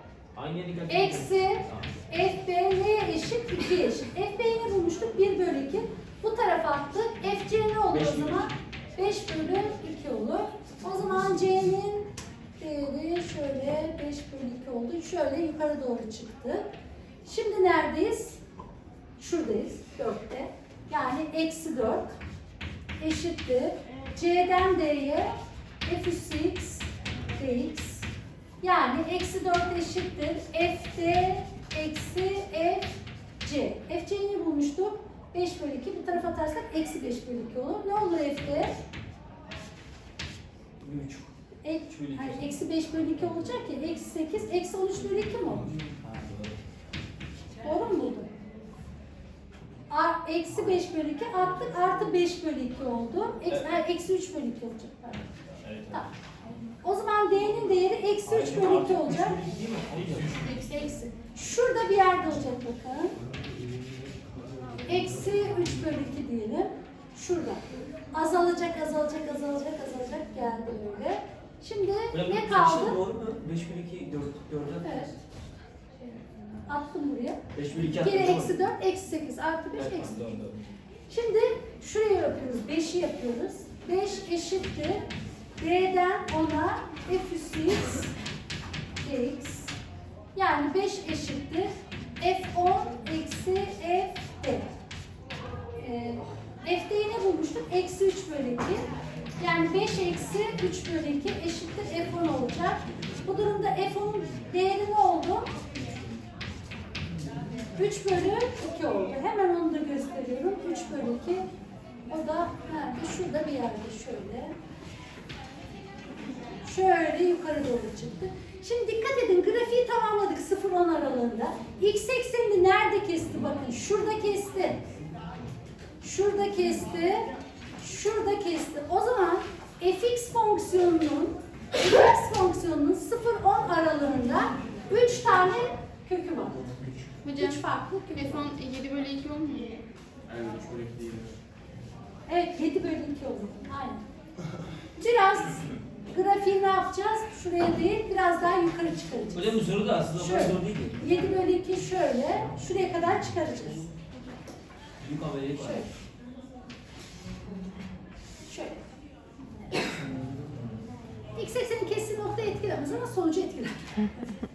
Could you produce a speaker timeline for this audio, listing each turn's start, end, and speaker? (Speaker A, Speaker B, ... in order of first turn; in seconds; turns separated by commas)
Speaker A: 0.3-1.9, Speaker B: 0.9-16.7, Speaker A: 7.9-8.6, Speaker B: 17.2-18.4, Speaker B: 19.2-22.1, Speaker B: 23.0-25.3, Speaker B: 25.9-28.1, Speaker B: 28.6-32.9, Speaker B: 33.4-38.7, Speaker A: 40.8-41.3, Speaker B: 41.6-45.7, Speaker A: 41.9-42.6, Speaker A: 45.8-46.6, Speaker B: 47.6-48.3, Speaker B: 49.9-55.3, Speaker A: 53.5-53.8, Speaker A: 55.4-56.1, Speaker B: 56.8-59.4, Speaker A: 58.2-60.4, Speaker B: 60.4-63.2, Speaker A: 63.6-64.1, Speaker B: 64.9-73.0, Speaker A: 72.1-75.0, Speaker B: 74.8-75.2, Speaker B: 76.7-80.3, Speaker A: 77.5-78.6, Speaker A: 79.8-80.7, Speaker B: 81.1-85.0, Speaker B: 85.6-88.1, Speaker B: 89.0-89.7, Speaker B: 90.3-91.7, Speaker B: 92.2-94.7, Speaker B: 95.8-98.8, Speaker B: 99.4-105.5, Speaker B: 107.8-111.5, Speaker B: 112.1-114.5, Speaker B: 116.6-124.8, Speaker B: 126.0-127.2, Speaker B: 127.8-136.6, Speaker C: 137.2-137.6, Speaker B: 137.3-138.4, Speaker C: 138.1-139.8, Speaker A: 140.4-141.2, Speaker B: 142.3-144.0, Speaker B: 145.0-149.6, Speaker A: 149.3-151.0, Speaker B: 150.1-153.9, Speaker A: 155.0-155.9, Speaker B: 155.6-155.9, Speaker B: 158.5-158.8, Speaker B: 161.4-164.3